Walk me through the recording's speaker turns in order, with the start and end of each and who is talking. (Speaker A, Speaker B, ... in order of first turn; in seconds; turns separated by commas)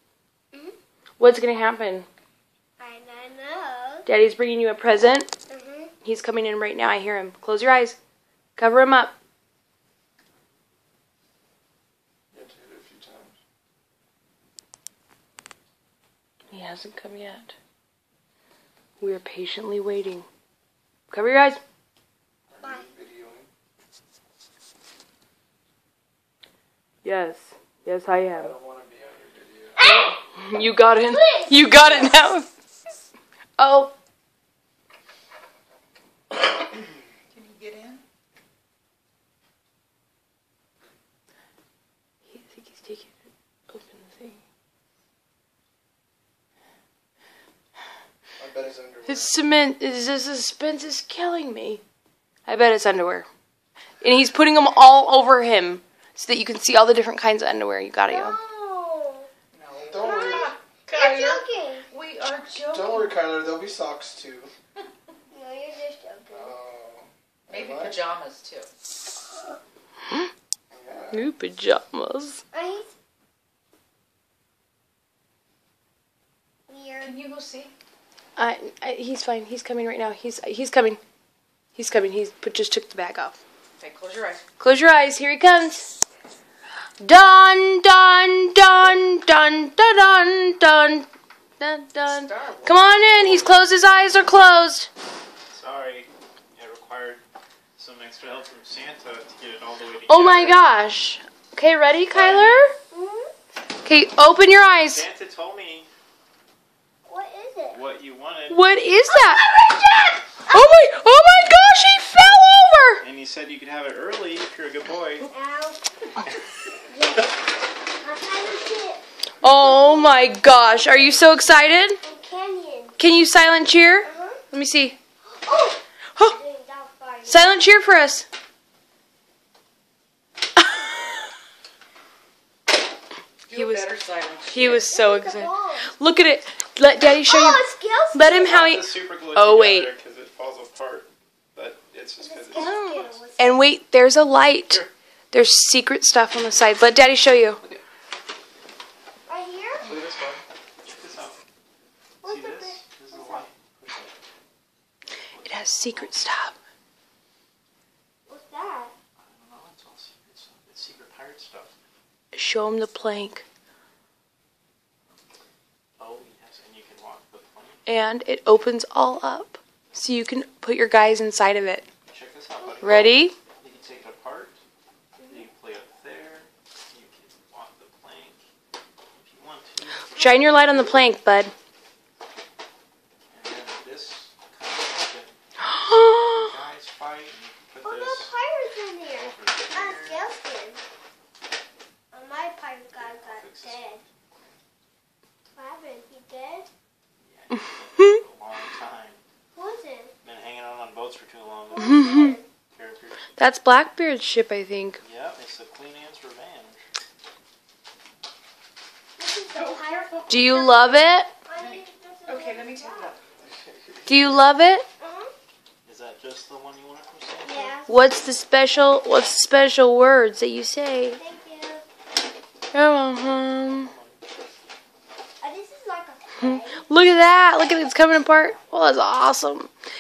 Speaker A: 1.2-2.1, Speaker B: 2.8-4.1, Speaker A: 4.1-5.3, Speaker B: 5.5-5.9, Speaker A: 6.0-8.0, Speaker A: 8.6-9.2, Speaker C: 12.3-13.3, Speaker A: 16.5-17.6, Speaker A: 19.0-20.3, Speaker A: 21.1-21.6, Speaker C: 22.5-23.5, Speaker B: 22.6-22.9, Speaker A: 27.0-28.6, Speaker C: 28.4-29.8, Speaker B: 29.8-30.2, Speaker A: 29.9-32.5, Speaker B: 31.1-32.2, Speaker A: 33.6-33.9, Speaker D: 37.3-38.0, Speaker A: 42.3-43.1, Speaker A: 43.7-44.4, Speaker C: 48.4-49.3, Speaker A: 49.1-51.8, Speaker A: 52.5-53.3, Speaker A: 54.0-58.4, Speaker B: 58.1-59.3, Speaker D: 59.5-63.2, Speaker C: 59.9-60.5, Speaker B: 60.0-61.9, Speaker C: 62.7-64.5, Speaker B: 65.3-66.6, Speaker C: 66.3-68.0, Speaker D: 67.5-68.7, Speaker C: 70.7-71.3, Speaker A: 71.1-72.4, Speaker B: 72.5-72.9, Speaker B: 76.7-77.2, Speaker D: 77.0-77.7, Speaker A: 78.4-81.0, Speaker A: 81.8-83.4, Speaker D: 83.8-84.4, Speaker A: 84.6-85.9, Speaker A: 87.0-91.1, Speaker A: 91.6-94.9, Speaker D: 92.1-93.0, Speaker E: 95.5-97.2, Speaker E: 97.8-100.6, Speaker A: 100.1-102.7, Speaker E: 102.1-102.7, Speaker B: 102.9-103.3, Speaker A: 103.8-105.0, Speaker E: 104.9-105.9, Speaker B: 107.1-107.8, Speaker E: 107.7-108.7, Speaker A: 108.5-109.5, Speaker B: 109.1-110.2, Speaker A: 110.5-113.0, Speaker E: 113.0-115.3, Speaker B: 115.3-115.8, Speaker B: 116.9-123.0, Speaker A: 119.4-122.0, Speaker A: 123.0-125.0, Speaker B: 124.0-124.4, Speaker B: 125.3-127.6, Speaker A: 127.3-128.3, Speaker D: 133.5-134.8, Speaker A: 133.5-133.9, Speaker A: 134.5-137.6, Speaker B: 134.6-135.9, Speaker B: 137.3-138.7, Speaker A: 138.1-139.9, Speaker E: 138.3-143.2, Speaker B: 142.2-143.7, Speaker A: 142.6-147.6, Speaker B: 149.3-149.9, Speaker E: 149.8-151.4, Speaker B: 152.2-153.5, Speaker E: 152.2-154.2, Speaker E: 155.3-156.5, Speaker A: 155.4-156.5, Speaker B: 158.3-158.9, Speaker E: 159.2-161.7, Speaker A: 162.3-163.4, Speaker E: 166.0-167.9, Speaker A: 167.9-171.9, Speaker E: 172.1-174.6, Speaker A: 172.8-173.3, Speaker B: 175.2-175.4, Speaker E: 175.3-178.4, Speaker E: 179.1-180.2, Speaker A: 180.1-181.5, Speaker B: 180.2-181.1, Speaker E: 183.3-188.4, Speaker A: 185.7-186.4, Speaker B: 187.8-190.8, Speaker E: 189.1-190.3, Speaker B: 192.1-194.0, Speaker E: 192.9-194.0, Speaker B: 195.5-196.7, Speaker E: 197.2-199.2, Speaker B: 199.5-200.1, Speaker E: 200.2-203.3, Speaker B: 201.7-202.4, Speaker A: 201.8-202.4, Speaker A: 203.4-205.0, Speaker E: 205.0-206.8, Speaker B: 209.2-210.5, Speaker D: 209.6-210.8, Speaker A: 210.3-211.3, Speaker B: 211.4-213.2, Speaker D: 211.6-213.2, Speaker C: 213.4-213.9, Speaker A: 214.1-214.9, Speaker B: 215.0-215.3, Speaker E: 215.8-217.8, Speaker B: 217.4-217.9, Speaker A: 217.9-221.2, Speaker B: 221.2-221.8, Speaker A: 222.7-223.9, Speaker E: 223.5-224.3, Speaker B: 225.4-226.9, Speaker A: 226.4-229.7, Speaker E: 228.1-228.7